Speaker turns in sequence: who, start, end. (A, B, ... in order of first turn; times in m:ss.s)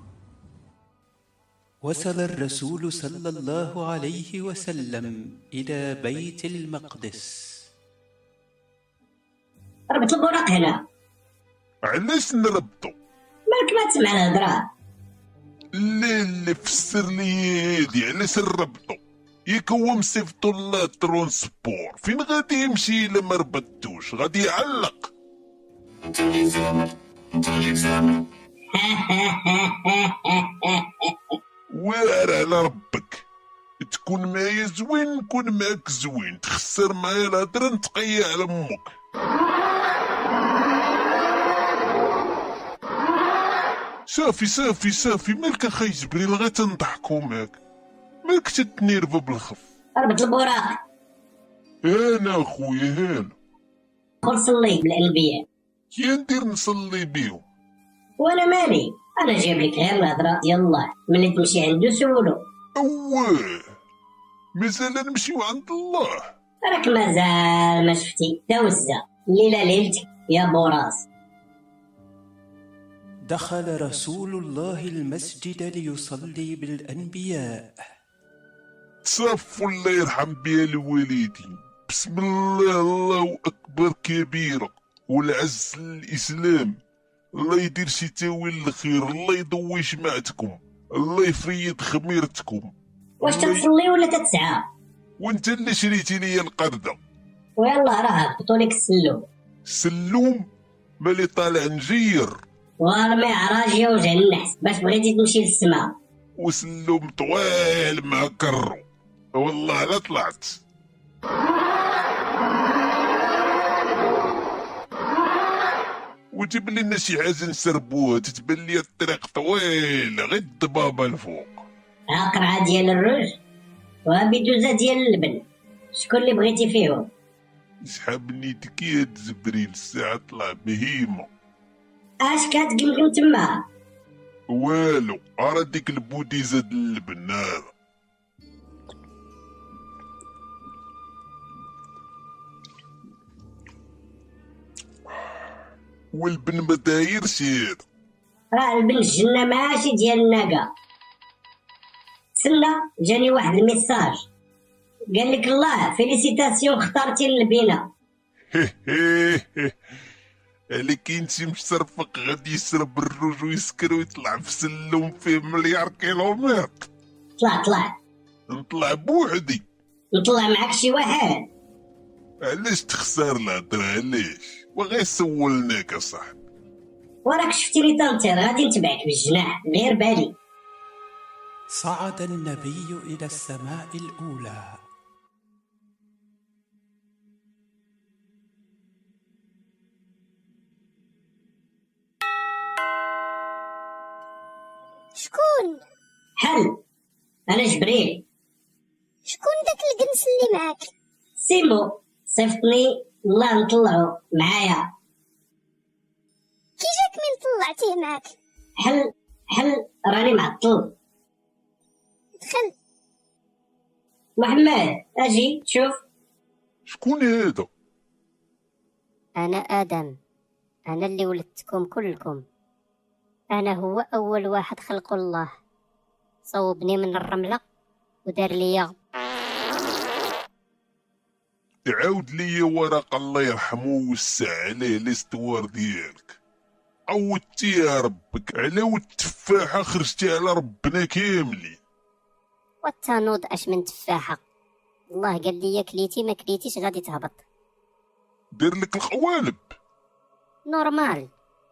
0:01.8-0:07.6 A
0:09.9-0:10.9 B
0:11.8-0:12.9 C
0:13.5-0:14.7 B
0:15.7-0:25.1 C
0:28.7-0:31.4 B
0:31.7-0:33.2 C
0:33.8-0:38.9 C
0:44.1-0:47.6 C
0:48.2-0:49.6 C
0:50.0-0:50.8 B
0:51.8-0:53.4 C
0:54.2-0:55.5 B
0:55.9-0:57.4 C
0:58.2-1:02.5 B
1:02.8-1:03.8 C
1:04.6-1:06.3 C
1:06.6-1:11.1 B
1:13.3-1:17.7 A
1:19.0-1:26.8 C
1:27.4-1:33.7 C
1:33.2-1:34.7 B
1:35.2-1:37.0 C
1:37.6-1:39.3 B
1:39.7-1:40.5 C
1:41.0-1:42.3 C
1:42.8-1:46.0 B
1:46.4-1:48.8 C
1:49.4-1:50.6 C
1:56.3-2:01.6 C
2:02.1-2:03.4 B
2:04.1-2:07.1 B
2:07.8-2:11.3 C
2:12.2-2:13.7 B
2:14.5-2:17.7 C
2:26.1-2:27.8 C
2:28.5-2:30.7 B
2:32.4-2:34.2 B
2:35.1-2:37.9 B
2:38.5-2:39.8 C
2:40.7-2:46.9 C
2:47.4-2:48.0 B
2:48.5-2:49.6 C
2:50.1-2:51.5 B
2:52.4-2:56.4 C
2:57.2-3:00.4 B
3:01.7-3:04.8 A
3:15.2-3:15.8 D
3:16.4-3:16.8 B
3:17.5-3:18.2 B
3:19.2-3:20.9 D
3:21.4-3:24.9 B
3:26.8-3:28.3 D
3:28.8-3:31.0 B
3:32.4-3:32.7 D
3:34.4-3:36.0 B
3:36.9-3:37.7 C
3:39.4-3:40.1 E
3:40.9-3:42.4 E
3:43.5-3:45.5 E
3:46.5-3:47.6 E
3:48.3-3:49.0 E
3:51.9-3:56.4 C
3:57.1-4:01.8 C
4:02.8-4:04.4 E
4:05.1-4:07.4 E
4:08.6-4:09.8 C
4:10.7-4:11.3 E